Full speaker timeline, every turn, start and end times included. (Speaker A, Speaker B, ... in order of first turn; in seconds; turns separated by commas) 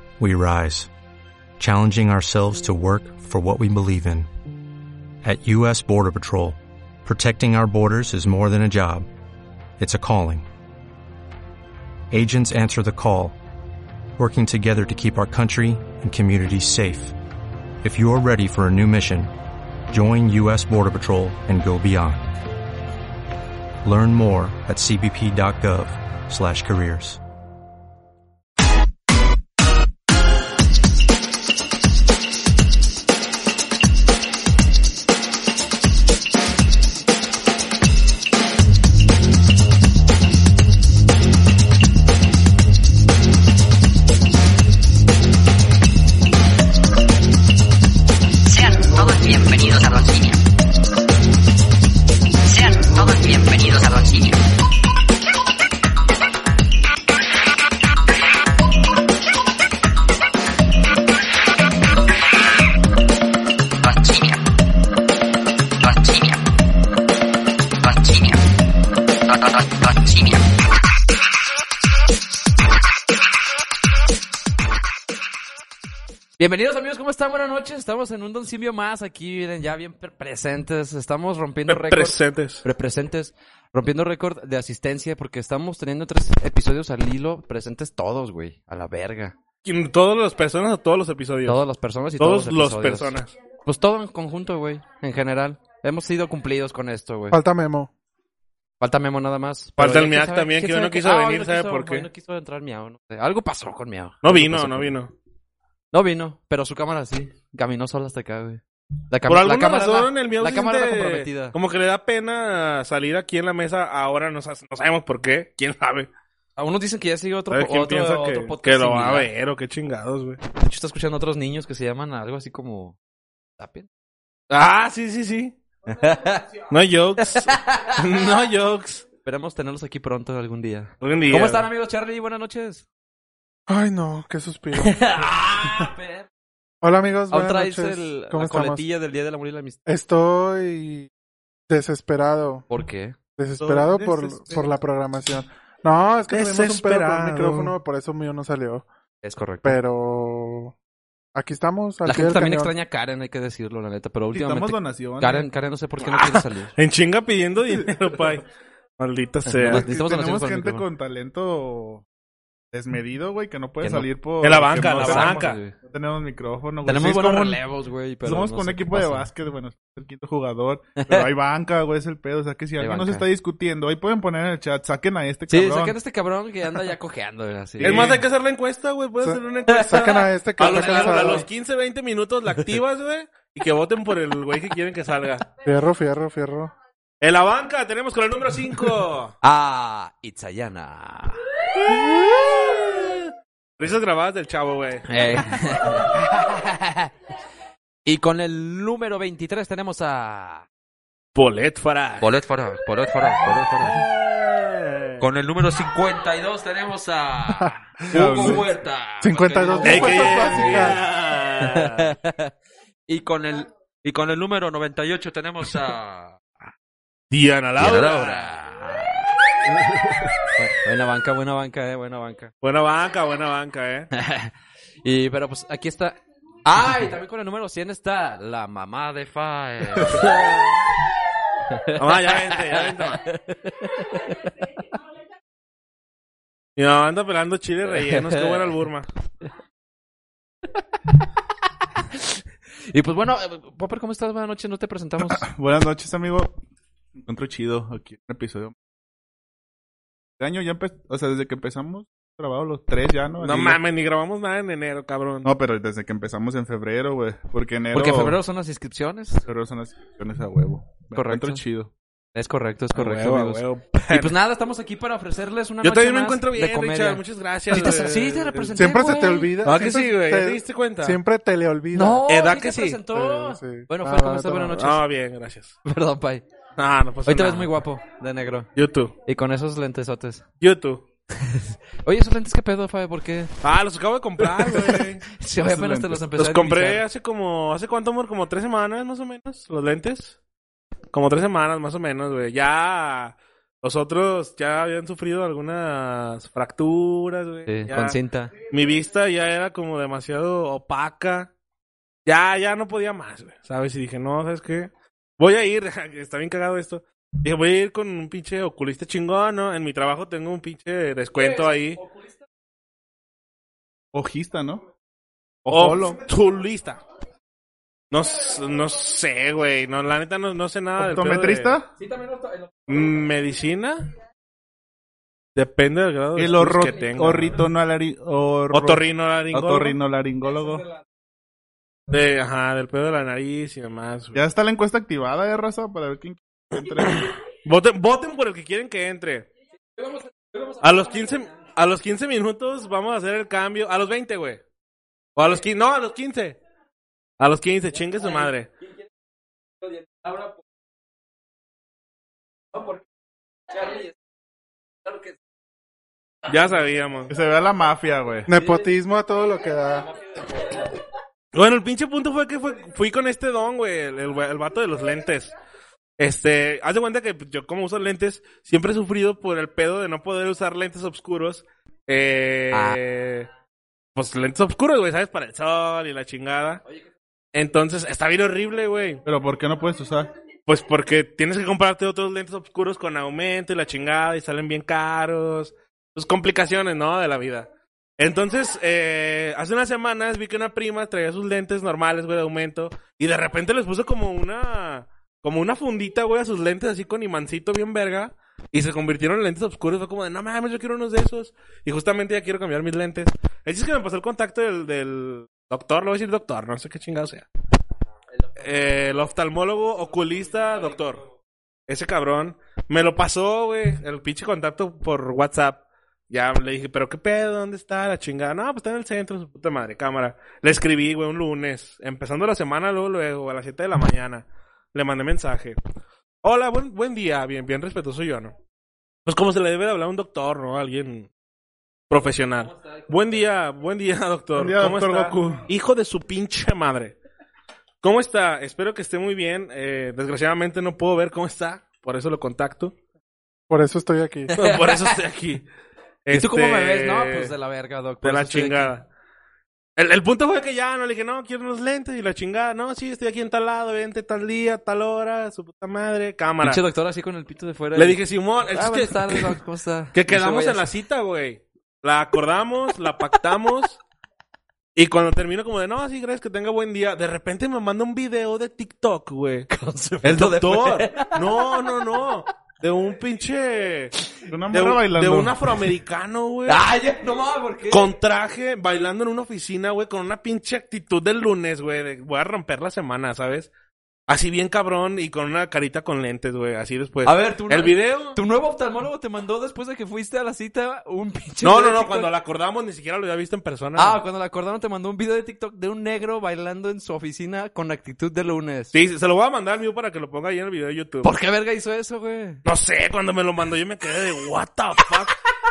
Speaker A: 0.2-0.9, Speaker A: 1.6-4.3, Speaker A: 5.2-9.1, Speaker A: 9.8-10.4, Speaker A: 12.1-13.3, Speaker A: 14.2-17.1, Speaker A: 17.8-19.3, Speaker A: 19.9-22.3, Speaker A: 23.8-27.2, Speaker B: 48.6-50.4, Speaker B: 52.6-54.4, Speaker B: 64.1-64.3, Speaker B: 66.1-66.3, Speaker B: 68.1-68.3, Speaker C: 76.4-89.3, Speaker D: 81.7-82.6, Speaker D: 89.6-91.6, Speaker C: 91.5-97.4, Speaker D: 92.2-93.3, Speaker E: 97.3-97.9, Speaker C: 98.8-105.0, Speaker D: 99.8-102.1, Speaker D: 104.2-105.1, Speaker C: 105.9-111.5, Speaker D: 109.3-116.1, Speaker C: 116.6-119.3, Speaker D: 117.5-120.4, Speaker C: 120.6-123.0, Speaker C: 123.6-123.9, Speaker D: 124.5-125.5, Speaker C: 125.9-126.6, Speaker D: 126.7-129.0, Speaker C: 127.2-128.2, Speaker C: 129.2-132.8, Speaker D: 131.0-131.7, Speaker E: 133.7-135.9, Speaker C: 134.8-136.3, Speaker E: 136.8-138.8, Speaker C: 137.3-139.8, Speaker E: 139.9-141.1, Speaker E: 141.7-142.6, Speaker C: 142.7-143.1, Speaker E: 143.4-148.9, Speaker F: 143.6-144.7, Speaker D: 146.3-147.8, Speaker C: 149.2-149.8, Speaker E: 149.6-150.7, Speaker E: 151.3-152.7, Speaker C: 152.0-156.7, Speaker F: 154.3-155.5, Speaker D: 156.0-158.4, Speaker D: 159.0-159.9, Speaker C: 159.5-160.8, Speaker F: 159.6-162.0, Speaker F: 162.7-167.6, Speaker C: 163.8-164.1, Speaker D: 164.4-165.6, Speaker C: 164.8-165.7, Speaker C: 166.8-169.3, Speaker F: 168.2-176.0, Speaker C: 171.0-171.3, Speaker C: 172.8-173.3, Speaker C: 175.5-178.1, Speaker D: 177.8-185.4, Speaker F: 177.8-178.2, Speaker E: 179.2-181.4, Speaker C: 179.7-181.4, Speaker E: 185.6-186.7, Speaker D: 187.2-189.3, Speaker C: 189.4-191.4, Speaker D: 191.9-193.2, Speaker D: 193.8-195.1, Speaker C: 195.1-197.1, Speaker C: 198.0-200.6, Speaker D: 201.3-202.3, Speaker C: 202.2-204.0, Speaker D: 203.4-205.2, Speaker C: 205.2-211.0, Speaker E: 207.6-208.5, Speaker F: 208.1-208.7, Speaker E: 209.2-211.0, Speaker D: 209.8-212.1, Speaker C: 211.6-212.5, Speaker C: 213.1-216.4, Speaker D: 217.3-218.5, Speaker C: 217.8-219.3, Speaker C: 220.6-222.5, Speaker D: 222.6-224.1, Speaker C: 224.1-224.5, Speaker C: 225.0-230.5, Speaker D: 230.1-230.8, Speaker C: 231.7-234.5, Speaker D: 231.9-233.2, Speaker D: 236.8-239.1, Speaker C: 237.9-238.8, Speaker C: 242.9-245.4, Speaker F: 245.2-246.5, Speaker F: 247.2-248.7, Speaker F: 250.4-253.8, Speaker D: 253.4-255.5, Speaker F: 255.4-258.4, Speaker C: 257.9-259.4, Speaker F: 259.5-261.9, Speaker C: 261.1-261.6, Speaker C: 262.3-269.5, Speaker D: 262.9-264.3, Speaker D: 265.8-268.7, Speaker E: 268.7-272.2, Speaker D: 269.6-271.2, Speaker C: 271.9-275.0, Speaker D: 272.3-273.0, Speaker E: 273.1-274.8, Speaker D: 274.7-275.8, Speaker C: 275.8-276.4, Speaker D: 276.8-277.7, Speaker C: 277.2-278.7, Speaker D: 278.8-279.1, Speaker C: 279.2-280.4, Speaker D: 280.6-281.0, Speaker C: 281.3-283.5, Speaker D: 283.6-285.3, Speaker C: 284.6-287.0, Speaker F: 285.6-286.2, Speaker D: 286.4-290.4, Speaker D: 291.1-298.2, Speaker C: 297.6-298.5, Speaker D: 298.7-301.5, Speaker D: 302.2-312.0, Speaker F: 314.1-314.8, Speaker F: 315.6-316.2, Speaker D: 315.7-317.0, Speaker D: 318.1-321.8, Speaker F: 321.0-321.9, Speaker C: 322.0-322.7, Speaker D: 322.9-324.1, Speaker D: 325.6-327.6, Speaker F: 326.4-330.9, Speaker D: 328.7-330.0, Speaker D: 332.1-334.4, Speaker F: 334.3-337.3, Speaker D: 337.1-339.5, Speaker C: 340.0-341.3, Speaker D: 340.8-344.6, Speaker D: 345.4-346.6, Speaker D: 347.4-348.7, Speaker C: 349.8-350.5, Speaker C: 352.7-353.0, Speaker C: 353.7-354.1, Speaker C: 355.1-355.3, Speaker D: 356.4-357.3, Speaker F: 357.3-358.5, Speaker E: 358.5-360.1, Speaker C: 358.6-358.9, Speaker D: 361.5-365.5, Speaker D: 366.2-373.5, Speaker C: 372.7-373.0, Speaker D: 374.1-376.8, Speaker D: 377.5-379.2, Speaker F: 379.2-380.3, Speaker D: 380.7-407.5, Speaker D: 408.6-411.2, Speaker C: 408.6-409.0, Speaker D: 411.9-425.8, Speaker D: 426.4-428.5, Speaker D: 429.2-431.3, Speaker D: 432.1-437.1, Speaker F: 434.5-435.7, Speaker D: 438.0-442.9, Speaker E: 443.7-444.5, Speaker C: 444.5-445.2, Speaker D: 444.6-445.6, Speaker D: 446.2-447.5, Speaker C: 446.3-448.9, Speaker D: 448.2-449.1, Speaker D: 450.0-456.8, Speaker C: 456.6-460.9, Speaker D: 457.9-459.5, Speaker D: 460.1-464.0, Speaker D: 464.9-469.7, Speaker C: 469.7-471.8, Speaker D: 470.2-474.1, Speaker F: 474.5-475.6, Speaker D: 474.7-476.8, Speaker C: 476.7-478.1, Speaker D: 477.9-483.7, Speaker D: 484.3-488.4, Speaker C: 487.2-492.3, Speaker D: 491.6-494.2, Speaker C: 493.9-498.9, Speaker D: 498.9-501.3, Speaker C: 501.2-502.6, Speaker D: 502.6-505.4